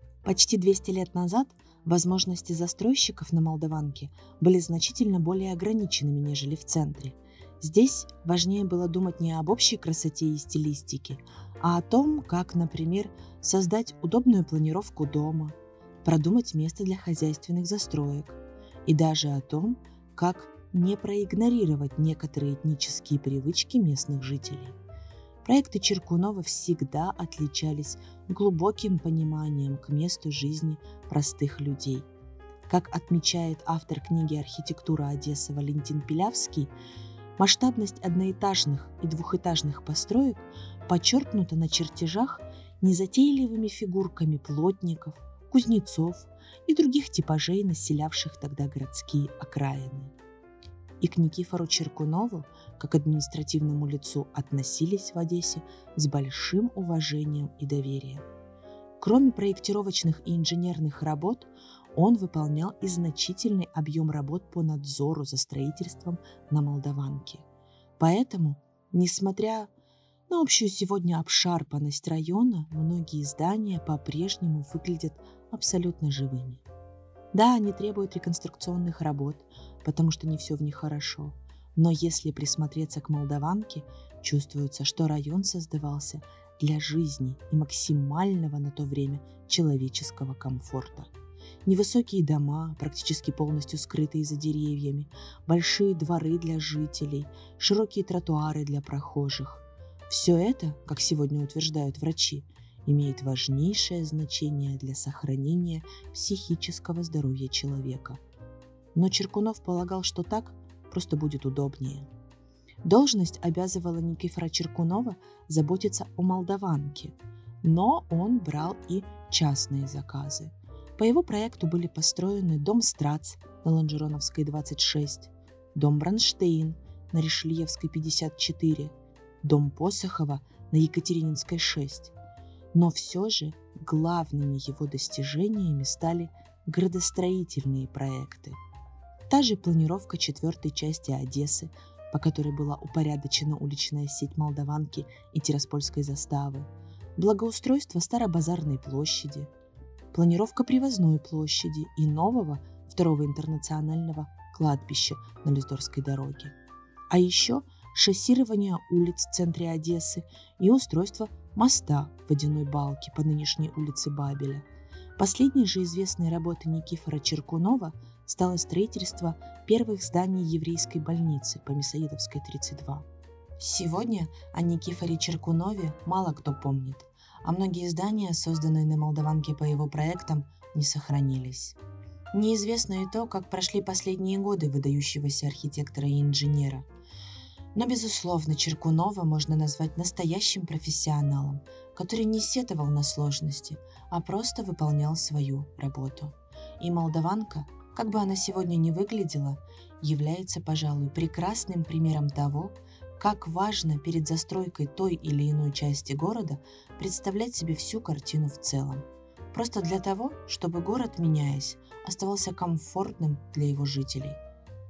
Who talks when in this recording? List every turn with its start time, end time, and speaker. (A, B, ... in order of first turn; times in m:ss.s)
0:00.2-0:24.8 A
0:25.4-0:32.0 A
0:32.7-0:36.7 A
0:37.4-0:50.1 A
0:51.0-0:58.2 A
0:59.0-1:07.4 A
1:08.0-1:09.7 A
1:10.3-1:16.6 A
1:17.3-1:31.1 A
1:31.6-1:48.2 A
1:48.9-1:52.1 A
1:52.8-2:12.1 A
2:12.7-2:18.6 A
2:19.3-2:29.5 A
2:30.1-2:36.5 A
2:37.1-2:44.6 A
2:45.2-2:53.0 A
2:53.6-3:01.8 A
3:02.3-3:06.9 A
3:07.7-3:34.4 A